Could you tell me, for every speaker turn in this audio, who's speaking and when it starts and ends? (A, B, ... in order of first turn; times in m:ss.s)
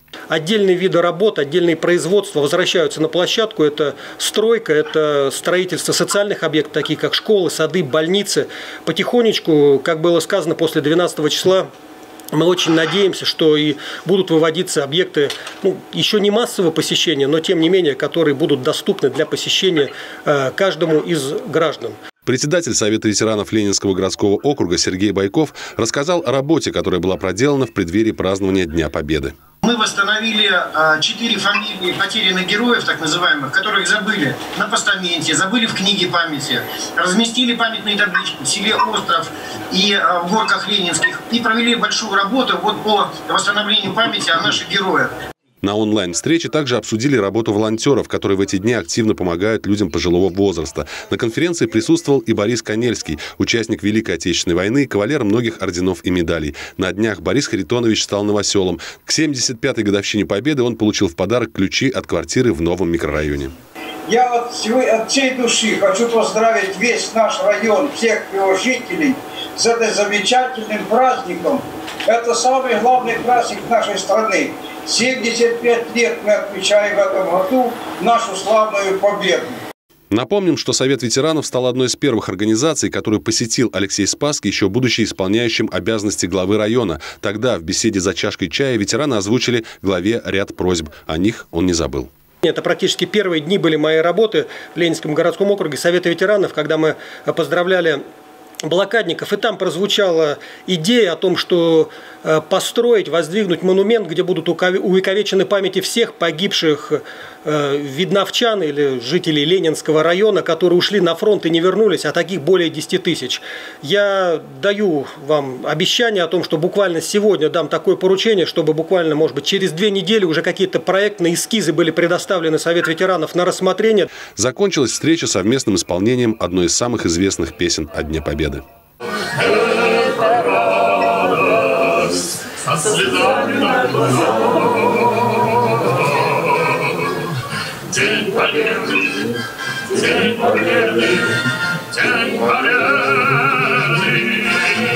0:00.3-0:11.7 A
0:12.3-0:22.0 A
0:22.3-0:29.4 B
0:29.6-0:45.1 C
0:45.6-1:03.5 B
1:04.1-1:19.6 D
1:20.1-1:32.1 B
1:32.4-1:38.0 A
1:38.6-2:04.1 A
2:04.4-2:08.6 B